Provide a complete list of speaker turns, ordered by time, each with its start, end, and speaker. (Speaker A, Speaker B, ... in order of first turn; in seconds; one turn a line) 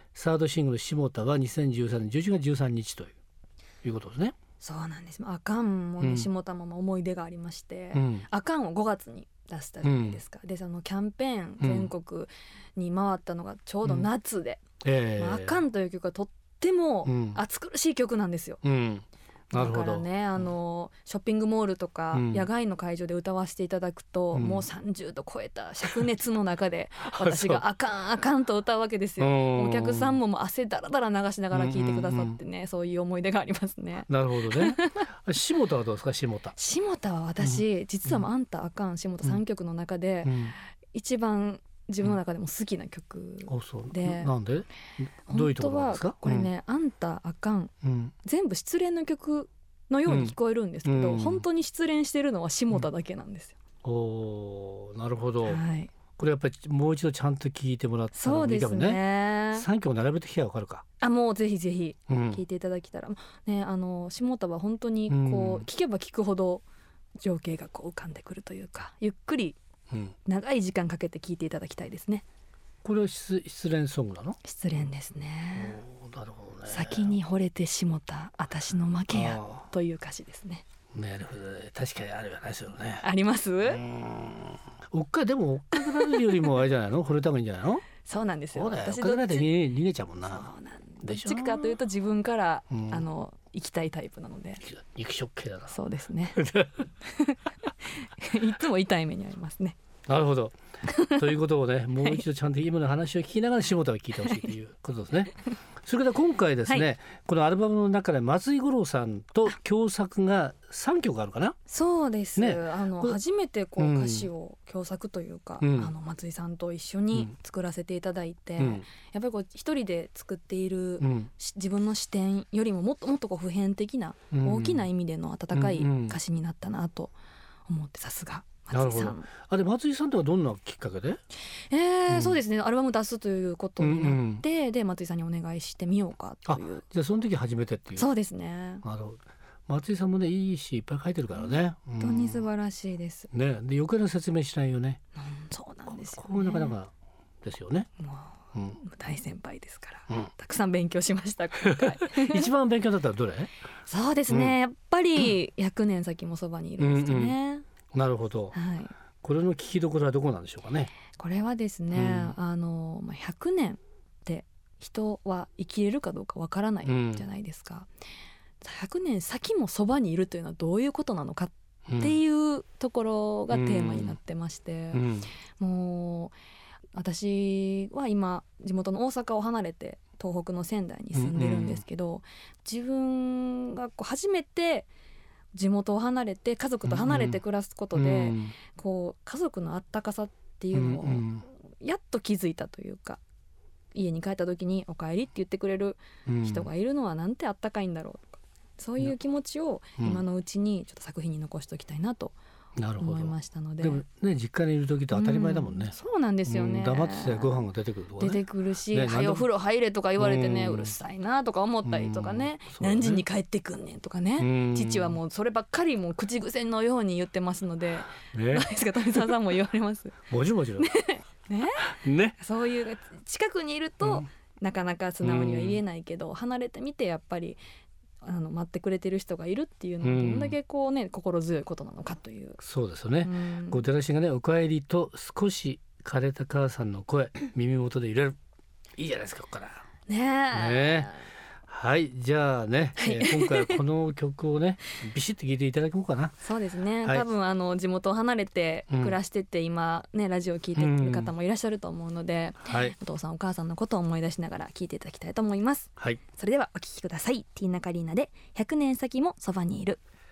Speaker A: 0.1-3.1
Speaker A: 3.8-4.3
Speaker B: 4.6-14.7
Speaker A: 6.0-6.3
Speaker A: 7.9-8.2
Speaker A: 9.8-10.2
Speaker A: 11.6-11.9
Speaker A: 14.8-15.6
Speaker B: 15.2-18.6
Speaker A: 17.1-17.4
Speaker A: 18.6-20.1
Speaker B: 19.5-35.1
Speaker A: 22.1-22.5
Speaker A: 24.3-24.6
Speaker A: 27.1-27.6
Speaker A: 29.2-30.2
Speaker A: 31.5-32.4
Speaker A: 34.1-36.6
Speaker B: 36.6-44.3
Speaker A: 37.4-38.2
Speaker A: 40.2-40.5
Speaker A: 43.5-46.5
Speaker B: 45.3-47.7
Speaker A: 47.8-48.1
Speaker B: 48.2-53.6
Speaker A: 50.1-50.3
Speaker A: 50.9-51.4
Speaker A: 53.8-55.6
Speaker B: 55.4-55.9
Speaker A: 56.2-59.0
Speaker B: 58.1-59.7
Speaker A: 59.5-60.8
Speaker B: 61.0-66.7
Speaker A: 62.1-62.4
Speaker A: 65.1-65.7
Speaker B: 67.2-69.6
Speaker B: 70.3-72.2
Speaker A: 72.8-74.4
Speaker B: 74.4-75.8
Speaker A: 75.5-77.2
Speaker B: 76.7-80.6
Speaker A: 79.1-79.7
Speaker A: 81.0-83.0
Speaker B: 83.0-83.8
Speaker A: 83.7-87.9
Speaker B: 88.0-89.5
Speaker A: 88.5-91.8
Speaker B: 90.2-94.6
Speaker A: 92.7-93.0
Speaker A: 94.6-95.8
Speaker B: 95.7-96.4
Speaker A: 96.4-96.8
Speaker B: 97.0-99.8
Speaker A: 100.1-100.6
Speaker B: 100.8-101.3
Speaker A: 101.1-111.6
Speaker B: 102.0-102.2
Speaker B: 111.7-127.1
Speaker A: 112.4-113.2
Speaker A: 113.8-114.3
Speaker A: 115.6-115.9
Speaker A: 118.6-118.8
Speaker A: 121.0-121.3
Speaker A: 124.3-124.9
Speaker A: 125.5-126.2
Speaker B: 127.7-129.3
Speaker A: 128.7-131.2
Speaker B: 131.7-136.8
Speaker A: 132.1-132.4
Speaker A: 133.8-134.4
Speaker A: 136.5-138.1
Speaker B: 138.0-138.8
Speaker A: 138.8-142.4
Speaker B: 142.0-143.3
Speaker A: 143.3-145.0
Speaker B: 145.2-146.7
Speaker A: 145.9-146.9
Speaker A: 147.4-147.9
Speaker B: 148.0-152.5
Speaker A: 148.5-148.8
Speaker A: 151.9-153.5
Speaker B: 153.9-157.7
Speaker A: 154.3-154.6
Speaker A: 156.8-157.4
Speaker A: 157.9-158.6
Speaker B: 158.5-158.9
Speaker A: 159.2-160.9
Speaker B: 161.1-167.9
Speaker A: 161.9-162.3
Speaker A: 166.8-167.2
Speaker B: 168.6-175.0
Speaker A: 171.9-172.2
Speaker A: 173.5-174.2
Speaker A: 174.9-175.3
Speaker B: 175.6-176.3
Speaker B: 176.9-184.9
Speaker A: 181.1-181.8
Speaker B: 185.5-193.2
Speaker A: 186.8-187.4
Speaker A: 187.9-188.6
Speaker A: 190.7-191.4
Speaker B: 193.9-202.3
Speaker A: 196.3-196.7
Speaker A: 202.8-208.4
Speaker B: 203.0-204.0
Speaker B: 205.1-207.6
Speaker B: 208.2-220.2
Speaker A: 208.9-209.5
Speaker A: 210.2-210.9
Speaker A: 211.8-213.2
Speaker A: 214.4-215.2
Speaker A: 218.3-218.7
Speaker A: 220.3-220.9
Speaker B: 220.8-227.6
Speaker A: 221.8-222.4
Speaker A: 225.2-225.8
Speaker B: 228.2-232.6
Speaker A: 230.0-230.6
Speaker A: 232.6-238.4
Speaker B: 233.2-233.8
Speaker A: 239.0-239.8
Speaker B: 240.1-241.3
Speaker A: 240.5-241.1
Speaker A: 241.7-246.4
Speaker B: 243.0-243.8
Speaker B: 246.4-260.0
Speaker A: 248.9-249.2
Speaker A: 250.8-251.3
Speaker A: 252.7-252.9